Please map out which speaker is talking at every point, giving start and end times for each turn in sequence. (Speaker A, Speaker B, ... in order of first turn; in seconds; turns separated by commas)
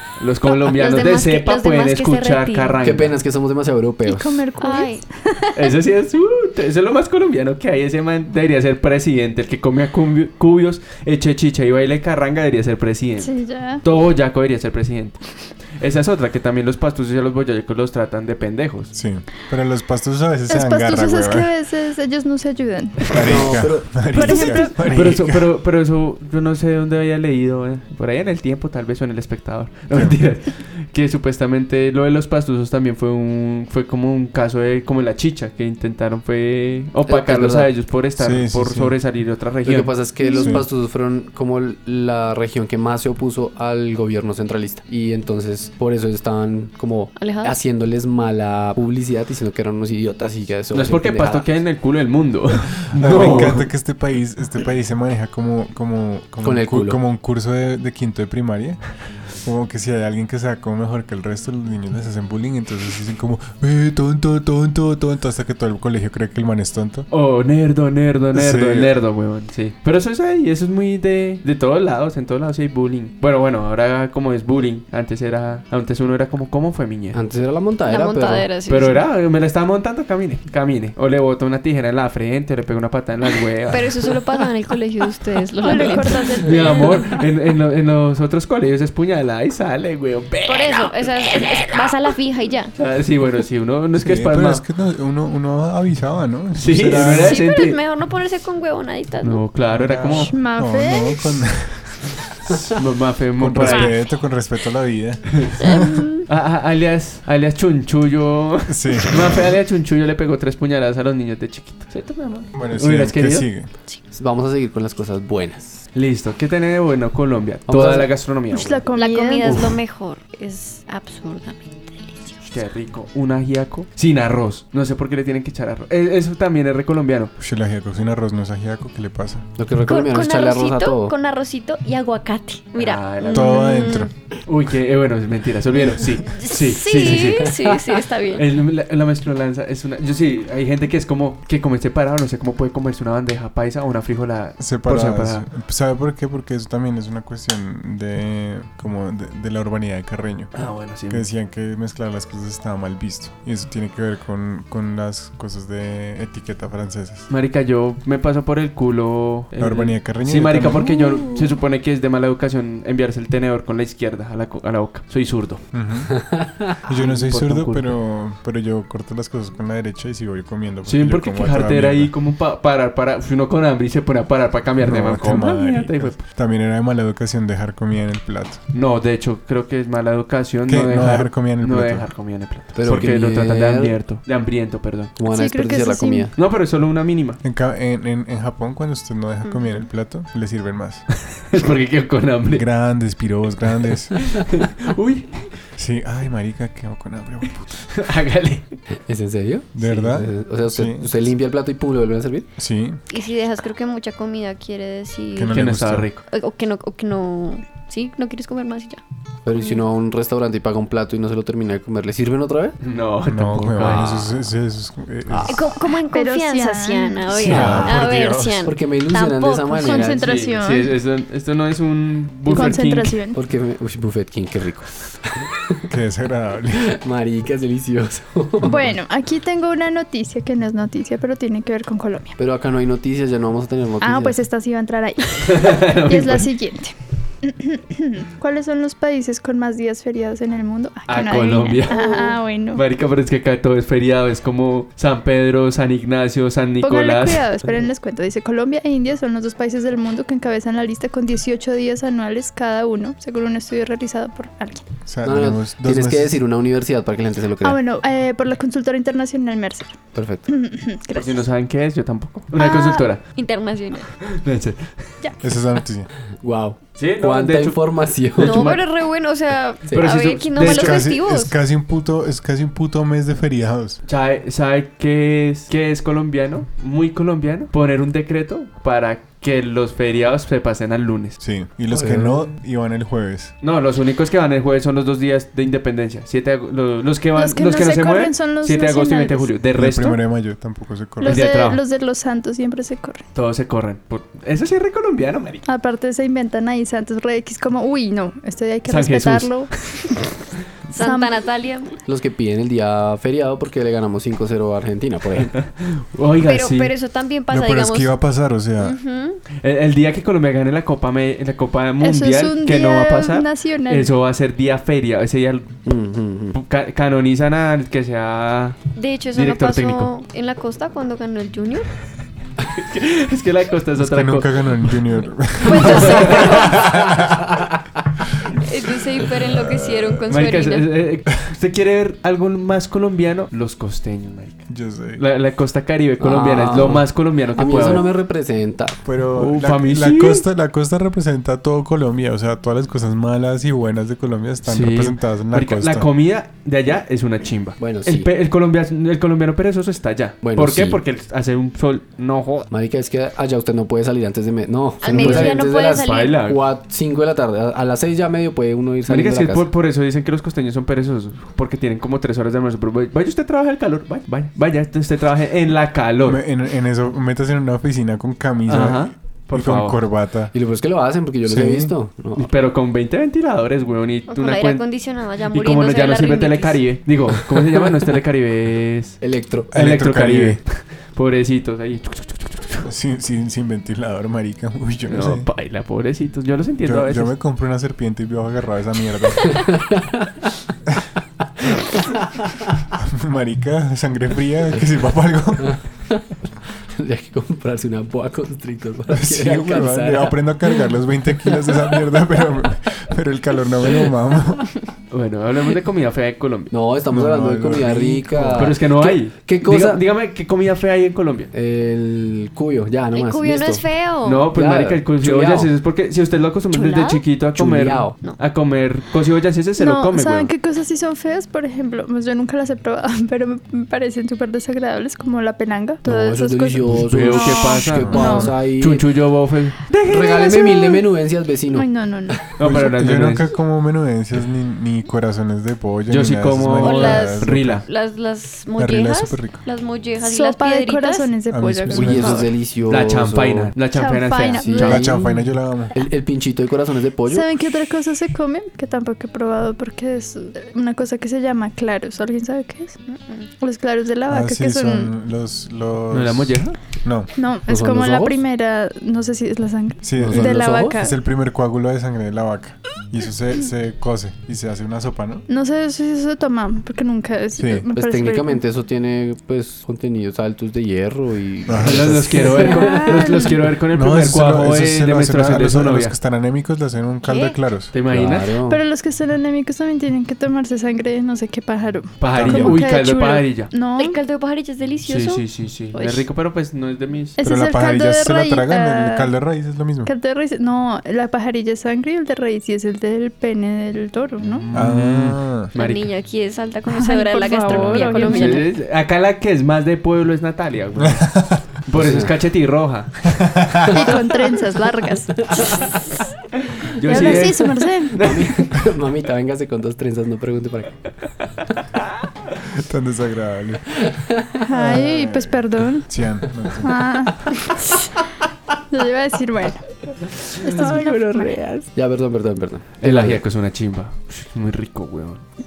Speaker A: 0.2-3.2, Speaker B: 0.4-2.8, Speaker C: 2.8-4.4, Speaker D: 4.1-5.5, Speaker B: 4.6-5.0, Speaker A: 5.5-18.9, Speaker D: 13.2-13.8, Speaker E: 18.9-21.5, Speaker D: 20.5-23.2, Speaker E: 23.1-25.5, Speaker C: 23.2-24.6, Speaker D: 24.1-24.9, Speaker A: 24.2-40.0, Speaker E: 29.9-30.2, Speaker C: 37.1-37.7, Speaker E: 38.2-39.0, Speaker C: 39.6-51.5, Speaker B: 40.2-40.6, Speaker E: 40.4-40.6, Speaker B: 47.2-47.6, Speaker A: 50.7-53.7, Speaker E: 52.9-67.1, Speaker C: 53.0-53.6, Speaker C: 56.4-57.0, Speaker A: 67.1-77.2, Speaker E: 68.3-68.9, Speaker C: 77.1-78.5, Speaker B: 77.9-79.1, Speaker A: 78.7-84.1, Speaker B: 83.7-87.0, Speaker D: 85.6-87.2, Speaker A: 86.4-91.9, Speaker B: 90.5-92.7, Speaker A: 92.8-94.6, Speaker E: 94.0-97.4, Speaker A: 96.6-97.8, Speaker B: 97.0-99.4, Speaker A: 99.2-100.3, Speaker E: 99.7-102.7, Speaker D: 100.1-101.4, Speaker A: 102.5-103.9, Speaker E: 103.4-106.1, Speaker B: 103.6-103.9, Speaker B: 105.6-106.3, Speaker A: 106.3-113.5, Speaker E: 108.7-109.5, Speaker E: 112.5-113.7, Speaker C: 114.1-115.8, Speaker A: 116.0-118.8, Speaker C: 117.7-118.1, Speaker D: 118.5-119.6, Speaker B: 118.9-122.5, Speaker A: 119.4-119.8, Speaker A: 122.5-127.3, Speaker E: 127.4-129.5, Speaker C: 129.6-131.1, Speaker B: 129.9-134.1, Speaker A: 132.8-133.7, Speaker E: 133.3-134.1, Speaker A: 134.5-137.5, Speaker B: 136.2-138.5, Speaker C: 137.0-137.8, Speaker A: 138.3-145.5, Speaker E: 144.6-157.3, Speaker A: 150.5-151.2, Speaker A: 157.3-165.6, Speaker E: 159.6-161.4, Speaker E: 165.7-166.3, Speaker C: 166.1-166.7, Speaker E: 166.8-172.1, Speaker A: 166.9-167.9, Speaker A: 170.9-176.2, Speaker E: 174.8-178.6, Speaker A: 178.7-185.2, Speaker E: 180.7-182.1, Speaker C: 182.7-184.0, Speaker C: 185.2-186.3, Speaker D: 185.2-186.3, Speaker A: 186.3-187.4, Speaker E: 187.4-191.1, Speaker A: 191.5-192.7, Speaker E: 192.5-194.4, Speaker A: 194.2-195.5, Speaker E: 195.8-197.7, Speaker A: 197.9-198.7, Speaker C: 199.1-202.5, Speaker E: 199.8-201.1, Speaker E: 202.6-203.0, Speaker B: 203.1-205.6, Speaker E: 205.4-206.1, Speaker A: 205.5-206.2, Speaker B: 206.3-209.8, Speaker C: 209.5-212.8, Speaker A: 212.8-214.3, Speaker E: 213.3-215.7, Speaker C: 215.3-215.6, Speaker B: 215.5-220.2, Speaker D: 216.1-217.3, Speaker A: 217.3-217.9, Speaker E: 217.3-218.7, Speaker C: 217.5-217.8, Speaker C: 218.6-220.4, Speaker D: 219.8-220.9, Speaker A: 220.2-223.1, Speaker D: 222.5-223.4, Speaker C: 223.3-225.6, Speaker E: 225.9-226.9, Speaker C: 226.8-228.8, Speaker D: 228.7-232.4, Speaker C: 232.4-234.4, Speaker D: 234.0-242.8, Speaker A: 235.4-236.5, Speaker A: 241.1-242.0, Speaker B: 241.9-242.3, Speaker A: 242.7-247.4, Speaker D: 246.8-254.8, Speaker E: 255.1-256.4, Speaker C: 255.2-257.8, Speaker D: 257.6-261.4, Speaker C: 260.1-260.5, Speaker A: 261.1-263.2, Speaker D: 262.6-263.1, Speaker B: 263.3-264.1, Speaker A: 264.2-265.0, Speaker E: 265.4-266.1, Speaker C: 266.4-268.7, Speaker A: 267.0-268.8, Speaker B: 268.4-271.5, Speaker C: 269.9-270.1, Speaker A: 269.9-271.1, Speaker E: 270.6-274.0, Speaker A: 274.1-281.4, Speaker E: 281.4-283.5, Speaker C: 281.9-282.5, Speaker A: 283.6-290.2, Speaker D: 287.4-289.6, Speaker E: 289.8-291.5, Speaker D: 291.2-293.2, Speaker A: 291.2-291.8, Speaker A: 293.4-295.6, Speaker D: 295.7-299.7, Speaker A: 298.9-299.5, Speaker B: 300.9-301.9, Speaker D: 301.0-301.3, Speaker C: 302.1-305.5, Speaker A: 305.6-306.9, Speaker B: 306.4-308.1, Speaker E: 307.5-309.0, Speaker B: 308.8-309.4, Speaker A: 309.6-315.8, Speaker D: 312.0-314.1, Speaker C: 315.9-316.6, Speaker A: 316.5-318.8, Speaker B: 318.9-321.9, Speaker A: 319.3-320.1, Speaker A: 322.7-324.9, Speaker E: 324.0-327.6, Speaker B: 325.6-326.9, Speaker A: 325.7-326.6, Speaker C: 326.6-327.8, Speaker B: 328.6-330.9, Speaker E: 329.5-330.3, Speaker A: 330.3-338.1, Speaker E: 334.7-335.2, Speaker C: 336.2-339.0, Speaker E: 339.0-346.1, Speaker A: 339.4-340.5, Speaker A: 344.6-352.7, Speaker C: 347.8-348.3, Speaker C: 350.4-351.0, Speaker C: 352.7-359.7, Speaker B: 355.0-356.4, Speaker A: 355.1-356.6, Speaker A: 359.1-366.4, Speaker E: 366.2-370.5, Speaker A: 368.7-370.0, Speaker C: 370.5-372.5, Speaker E: 371.4-371.9, Speaker A: 372.4-374.8, Speaker B: 374.3-376.8, Speaker A: 375.5-379.2, Speaker C: 379.2-379.7, Speaker E: 379.7-380.6, Speaker A: 379.7-382.9, Speaker E: 382.8-385.5, Speaker A: 385.1-387.3, Speaker E: 386.8-389.7, Speaker C: 389.4-390.5, Speaker C: 391.8-392.6, Speaker E: 392.9-395.8, Speaker C: 395.6-402.4, Speaker E: 399.1-404.8, Speaker A: 405.1-406.7, Speaker C: 406.7-410.1, Speaker E: 407.1-408.8, Speaker A: 408.6-411.5, Speaker C: 411.5-413.9, Speaker B: 413.1-414.5, Speaker A: 414.2-420.5, Speaker C: 414.5-415.7, Speaker B: 416.7-417.2, Speaker C: 417.6-418.2, Speaker D: 419.8-428.5, Speaker C: 426.0-429.1, Speaker A: 427.0-430.8, Speaker E: 427.9-428.5, Speaker C: 430.1-432.4, Speaker D: 430.4-431.0, Speaker D: 431.7-432.5, Speaker A: 432.6-433.5, Speaker E: 432.6-437.9, Speaker A: 436.1-437.9, Speaker B: 436.8-441.4, Speaker E: 438.8-439.6, Speaker D: 440.2-442.4, Speaker E: 441.5-442.5, Speaker C: 441.9-443.8, Speaker A: 442.8-445.1, Speaker D: 443.9-445.0, Speaker C: 444.6-447.5, Speaker E: 444.9-445.9, Speaker D: 447.3-453.0, Speaker B: 453.1-453.5, Speaker D: 453.6-455.1, Speaker E: 454.3-457.3, Speaker A: 456.1-456.8, Speaker D: 457.4-461.1, Speaker C: 457.7-458.4, Speaker E: 460.0-465.5, Speaker C: 460.2-461.0, Speaker D: 465.5-468.6, Speaker E: 467.6-467.9, Speaker C: 467.9-473.2, Speaker E: 471.7-472.4, Speaker A: 471.8-476.1, Speaker D: 472.4-473.6, Speaker E: 473.8-477.9, Speaker B: 477.2-477.6, Speaker A: 477.9-478.5, Speaker C: 478.1-478.8, Speaker D: 478.7-484.2, Speaker A: 482.2-483.7, Speaker E: 482.3-482.8, Speaker B: 484.0-486.2, Speaker A: 485.1-487.4, Speaker D: 487.4-489.3, Speaker E: 487.4-490.1, Speaker D: 490.1-494.7, Speaker A: 494.7-496.1, Speaker E: 494.7-495.7, Speaker B: 495.7-498.7, Speaker D: 496.9-498.7, Speaker A: 498.1-503.3, Speaker E: 501.0-501.6, Speaker C: 501.9-502.3, Speaker E: 503.5-503.9, Speaker D: 503.9-505.8, Speaker A: 506.9-508.6, Speaker D: 507.1-508.2, Speaker C: 507.1-507.5, Speaker C: 508.2-511.0, Speaker A: 511.6-512.1, Speaker E: 512.6-514.0, Speaker C: 514.0-515.5, Speaker D: 514.6-516.1, Speaker E: 516.1-517.1, Speaker D: 516.8-518.1, Speaker D: 518.9-519.8, Speaker A: 520.3-521.9, Speaker D: 520.6-521.6, Speaker C: 522.0-523.4, Speaker A: 523.0-525.4